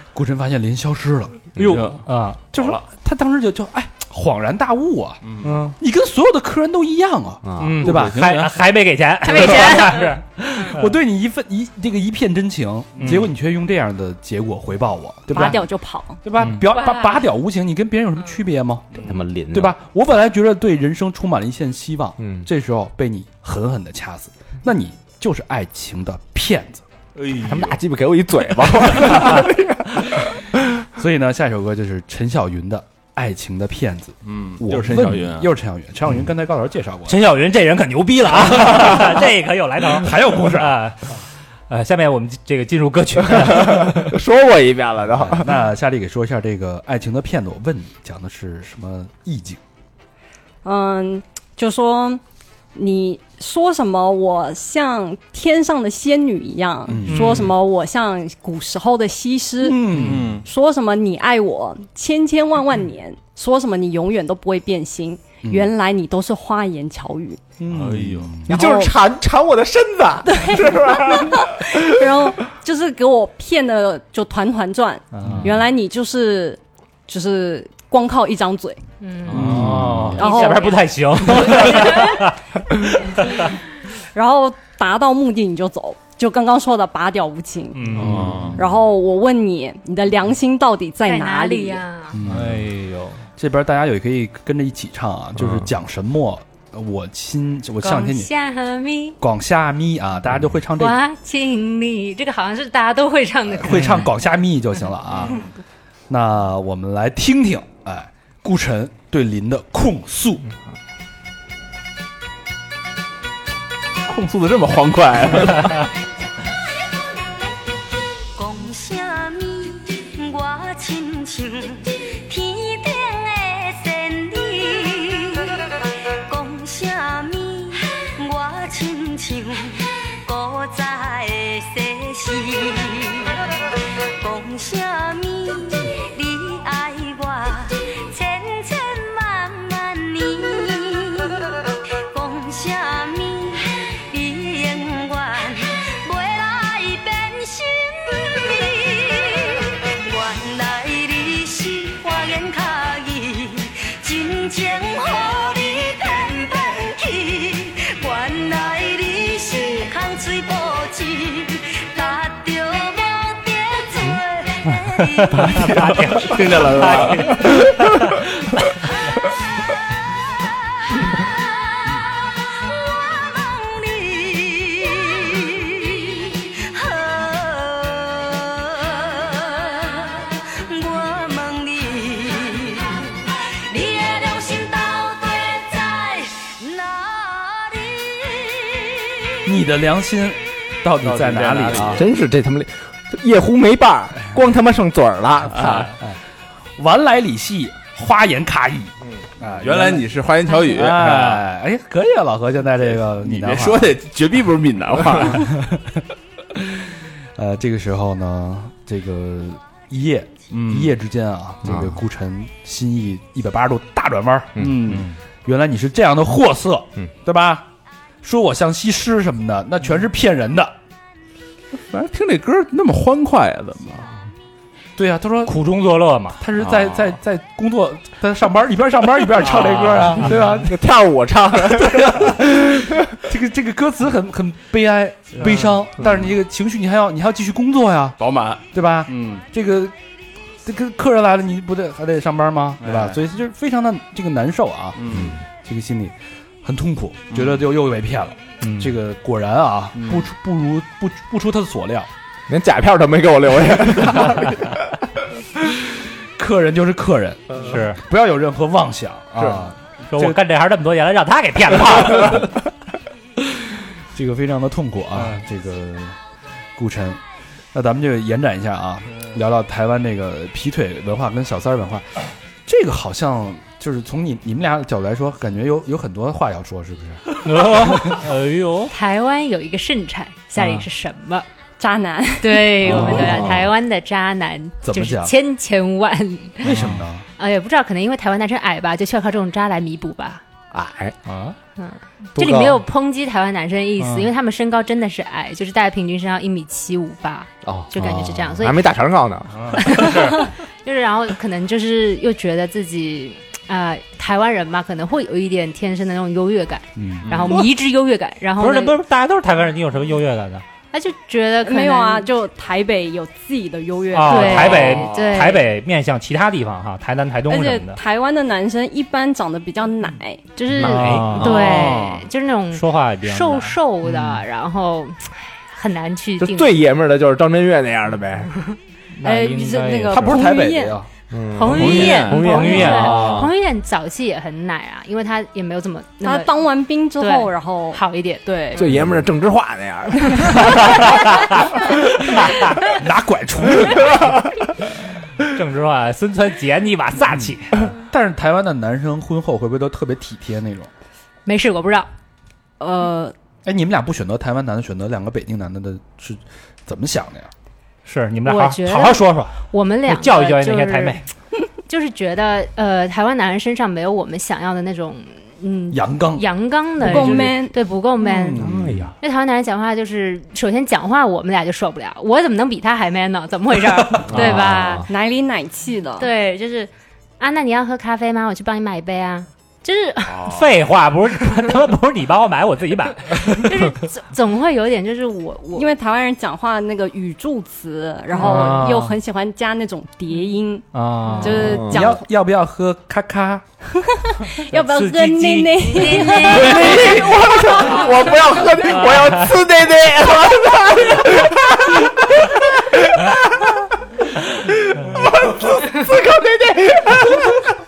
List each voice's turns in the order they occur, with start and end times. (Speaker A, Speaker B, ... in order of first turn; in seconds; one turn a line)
Speaker A: 0.1-1.7
Speaker B: 1.6-2.0
Speaker C: 1.6-2.5
Speaker A: 2.5-8.3
Speaker B: 2.5-2.8
Speaker B: 5.2-5.7
Speaker D: 7.4-7.8
Speaker C: 7.6-10.9
Speaker B: 7.8-8.6
Speaker E: 9.2-10.2
Speaker A: 10.6-15.6
Speaker C: 13.0-13.3
Speaker F: 15.3-16.2
Speaker A: 16.2-26.8
Speaker E: 16.7-17.2
Speaker D: 19.0-19.8
Speaker D: 22.2-22.5
Speaker B: 27.1-27.8
Speaker D: 27.4-30.3
Speaker A: 28.9-29.4
Speaker A: 30.9-37.2
Speaker B: 34.2-35.5
Speaker C: 37.1-41.2
Speaker A: 39.9-40.8
Speaker C: 41.7-44.1
Speaker D: 43.4-45.6
Speaker A: 45.2-49.6
Speaker F: 50.6-52.2
Speaker F: 52.7-67.4
Speaker A: 56.9-57.5
Speaker C: 57.1-57.5
Speaker A: 59.6-60.4
Speaker B: 59.9-60.5
Speaker A: 65.4-65.7
Speaker A: 67.6-68.5
Speaker B: 67.7-68.4
Speaker D: 68.5-71.8
Speaker F: 68.5-68.9
Speaker F: 70.2-78.8
Speaker C: 75.1-75.5
Speaker E: 79.0-79.5
Speaker B: 79.3-80.2
Speaker A: 79.3-80.2
Speaker C: 79.3-83.4
Speaker F: 80.2-82.0
Speaker E: 80.3-80.7
Speaker E: 81.3-82.2
Speaker F: 84.1-88.0
Speaker C: 87.7-88.3
Speaker A: 88.0-88.6
Speaker B: 88.0-88.6
Speaker F: 88.5-91.8
Speaker E: 91.0-92.2
Speaker A: 92.1-92.7
Speaker C: 92.2-93.2
Speaker A: 93.4-98.3
Speaker E: 97.8-99.2
Speaker A: 99.2-101.0
Speaker E: 100.8-104.0
Speaker A: 103.5-105.4
Speaker A: 106.1-110.5
Speaker B: 114.0-115.8
Speaker G: 118.3-125.5
Speaker G: 126.2-133.3
Speaker G: 134.2-141.5
Speaker G: 142.1-165.5
Speaker C: 165.2-168.3
Speaker B: 165.8-167.8
Speaker G: 171.1-189.5
Speaker A: 189.4-192.0
Speaker B: 191.0-192.0
Speaker D: 191.7-195.9
Speaker A: 195.6-196.2
Speaker A: 196.8-200.0
Speaker B: 199.5-201.4
Speaker A: 200.7-204.0
Speaker B: 202.9-205.5
Speaker A: 205.2-206.0
Speaker A: 206.6-217.7
Speaker B: 210.5-210.9
Speaker D: 211.6-212.0
Speaker D: 214.6-215.0
Speaker B: 214.6-215.2
Speaker A: 218.2-220.7
Speaker B: 221.8-224.1
Speaker A: 225.0-225.6
Speaker C: 225.4-226.4
Speaker A: 226.4-230.8
Speaker B: 226.6-227.2
Speaker C: 229.4-230.3
Speaker D: 230.6-232.4
Speaker A: 231.6-239.9
Speaker B: 235.4-236.1
Speaker B: 238.2-239.4
Speaker A: 240.6-252.1
Speaker B: 242.8-243.2
Speaker B: 244.9-245.4
Speaker D: 245.1-245.4
Speaker B: 247.3-247.7
Speaker C: 248.6-248.9
Speaker B: 249.9-250.3
Speaker D: 252.5-254.6
Speaker A: 254.1-254.3
Speaker A: 256.4-260.4
Speaker C: 257.6-258.0
Speaker C: 260.1-262.5
Speaker A: 264.1-266.2
Speaker A: 266.8-267.2
Speaker A: 267.7-278.1
Speaker C: 277.4-278.9
Speaker E: 278.9-281.4
Speaker C: 280.6-280.8
Speaker F: 281.8-282.8
Speaker E: 282.4-286.8
Speaker D: 282.8-283.6
Speaker A: 282.9-283.6
Speaker A: 284.8-285.3
Speaker A: 286.6-287.2
Speaker C: 286.6-287.0
Speaker E: 287.4-290.4
Speaker D: 290.7-291.1
Speaker C: 291.2-291.6
Speaker E: 291.8-298.8
Speaker D: 292.4-292.8
Speaker C: 294.0-294.3
Speaker D: 297.6-299.9
Speaker E: 299.8-309.0
Speaker C: 299.8-300.4
Speaker A: 307.0-307.3
Speaker C: 308.6-310.6
Speaker E: 310.9-312.3
Speaker F: 311.6-315.6
Speaker C: 314.1-318.0
Speaker E: 314.2-315.6
Speaker B: 314.7-315.4
Speaker F: 317.5-320.5
Speaker E: 320.5-326.7
Speaker C: 320.7-321.8
Speaker D: 321.3-321.9
Speaker B: 321.4-322.2
Speaker C: 322.7-324.4
Speaker D: 326.4-328.5
Speaker C: 329.1-330.4
Speaker F: 329.2-331.0
Speaker A: 330.1-331.1
Speaker D: 331.3-333.5
Speaker E: 331.5-336.6
Speaker B: 331.6-333.0
Speaker C: 332.4-333.2
Speaker F: 336.2-338.9
Speaker E: 337.2-338.4
Speaker D: 338.7-341.1
Speaker A: 338.9-339.2
Speaker D: 342.2-342.5
Speaker A: 342.9-344.5
Speaker C: 345.5-347.8
Speaker A: 347.3-350.9
Speaker E: 351.4-352.1
Speaker F: 352.8-353.3
Speaker A: 353.6-357.5
Speaker C: 358.0-361.2
Speaker E: 358.4-361.2
Speaker E: 361.9-368.6
Speaker A: 365.9-367.6
Speaker F: 367.0-367.8
Speaker A: 368.2-369.1
Speaker D: 368.6-369.1
Speaker E: 369.2-375.1
Speaker D: 374.3-375.0
Speaker F: 375.1-376.3
Speaker E: 376.2-380.5
Speaker B: 380.2-380.7
Speaker C: 380.4-383.7
Speaker E: 383.5-385.9
Speaker F: 385.7-392.2
Speaker E: 388.3-388.8
Speaker C: 388.4-389.1
Speaker C: 390.9-391.8
Speaker E: 391.3-391.6
Speaker D: 391.6-392.0
Speaker A: 391.8-393.6
Speaker F: 394.2-398.1
Speaker C: 394.7-396.1
Speaker E: 396.0-396.4
Speaker D: 396.4-403.7
Speaker C: 398.9-399.5
Speaker D: 404.9-407.6